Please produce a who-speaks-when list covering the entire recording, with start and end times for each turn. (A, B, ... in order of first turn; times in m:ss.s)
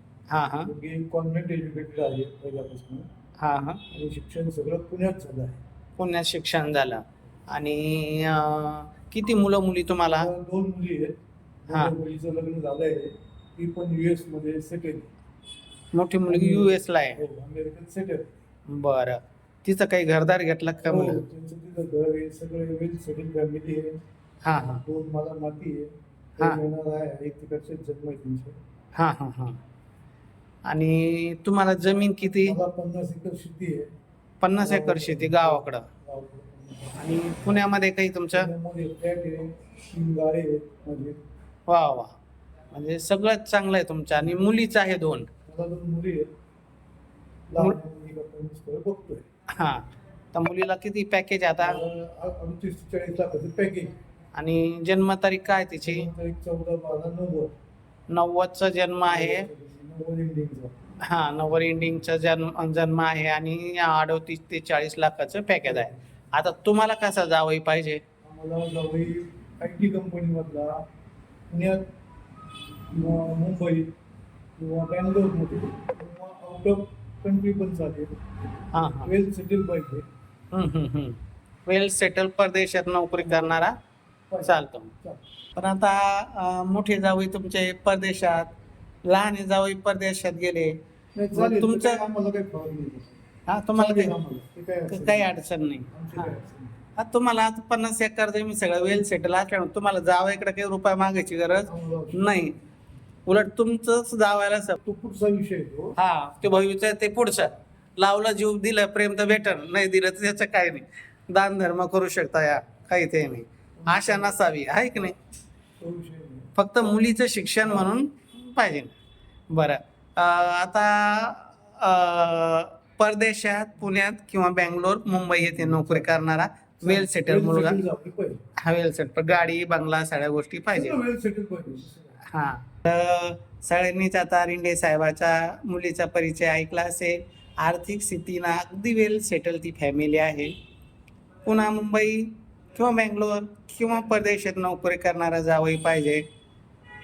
0:00.3-0:00.7 A
0:00.6-0:03.1 B
0:03.4-0:03.8 A
0:03.9-0:05.6 B
0:06.0-0:10.3 A
0:10.1-0:11.2 B
0:11.7-0:15.1 B
0:11.7-0:12.0 A
0:15.9-0:17.2 A
0:16.3-0:18.3 B
0:18.7-0:21.2 A
0:20.8-0:24.0 B
0:24.4-0:24.8 A
0:24.8-0:28.6 B
0:29.0-0:29.6 A
0:30.7-0:32.6 A
0:32.4-0:33.9 B
0:34.4-0:35.9 A
0:34.6-0:37.6 B
0:37.0-0:38.5 A
0:38.3-0:41.2 B
0:41.7-0:42.1 A
0:42.7-0:45.3 A
0:45.5-0:46.3 B
0:47.5-0:49.2 B
0:49.5-0:51.8 A
0:51.6-0:53.9 B
0:54.3-0:56.1 A
0:55.8-0:57.5 B
0:58.1-0:59.5 A
0:59.0-1:00.8 B
1:01.0-1:08.0 A
1:05.6-1:06.0 B
1:08.2-1:10.8 B
1:11.5-1:11.9 B
1:12.9-1:13.9 B
1:14.6-1:18.3 B
1:18.7-1:19.1 A
1:18.8-1:20.0 B
1:20.5-1:23.8 A
1:23.2-1:23.7 B
1:24.3-1:25.2 B
1:24.4-1:24.9 A
1:25.6-1:28.5 A
1:29.0-1:30.8 A
1:31.2-1:35.4 B
1:31.3-1:32.0 A
1:33.5-1:34.1 A
1:34.9-1:36.3 A
1:35.9-1:36.8 B
1:37.0-1:42.6 A
1:41.7-1:42.5 B
1:43.3-1:44.8 A
1:44.8-1:46.0 B
1:46.0-1:55.2 A
1:53.8-1:54.4 B
1:55.8-1:56.5 B
1:56.6-1:58.9 A
1:59.5-2:07.8 A
2:05.4-2:06.2 B
2:06.8-2:08.4 B
2:08.6-2:11.0 A
2:10.7-2:12.2 B
2:12.2-2:20.5 A
2:21.4-2:26.2 A